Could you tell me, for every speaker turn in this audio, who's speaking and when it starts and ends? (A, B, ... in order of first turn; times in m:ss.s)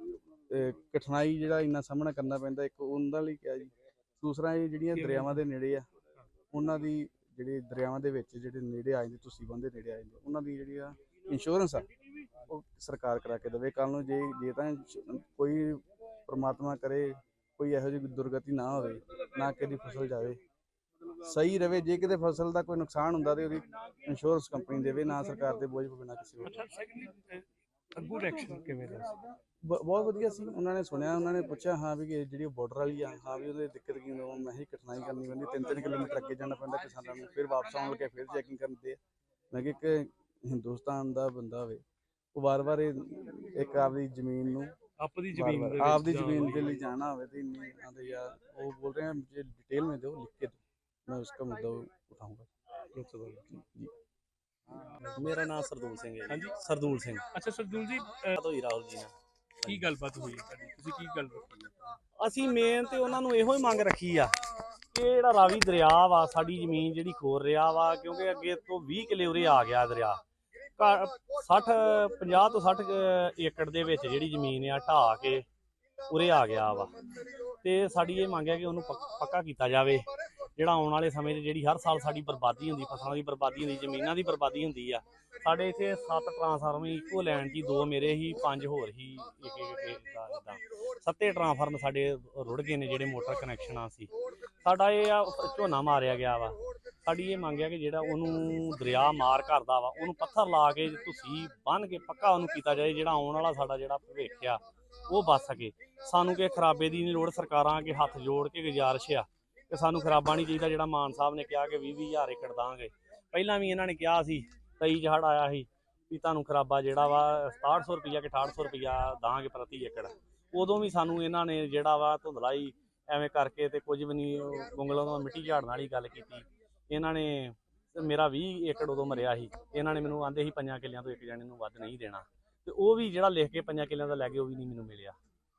0:00.5-0:05.8 A
0:04.9-0:05.4 B
0:06.5-0:11.9 A
0:12.5-0:20.4 A
0:21.2-0:26.6 A
0:26.4-0:29.2 B
0:29.6-0:39.0 A
0:39.5-0:41.8 A
0:42.3-0:44.7 A
0:45.0-0:46.9 B
0:45.3-0:52.5 A
0:52.9-0:53.6 B
0:53.5-0:53.9 A
0:55.0-0:55.2 B
0:55.1-0:57.3 C
0:57.3-0:58.3 B
0:58.3-0:59.8 C
0:59.6-1:01.9 B
1:02.2-1:04.4 C
1:04.9-1:10.2 C
1:10.8-1:15.4 C
1:16.1-1:20.0 C
1:20.6-2:15.2 C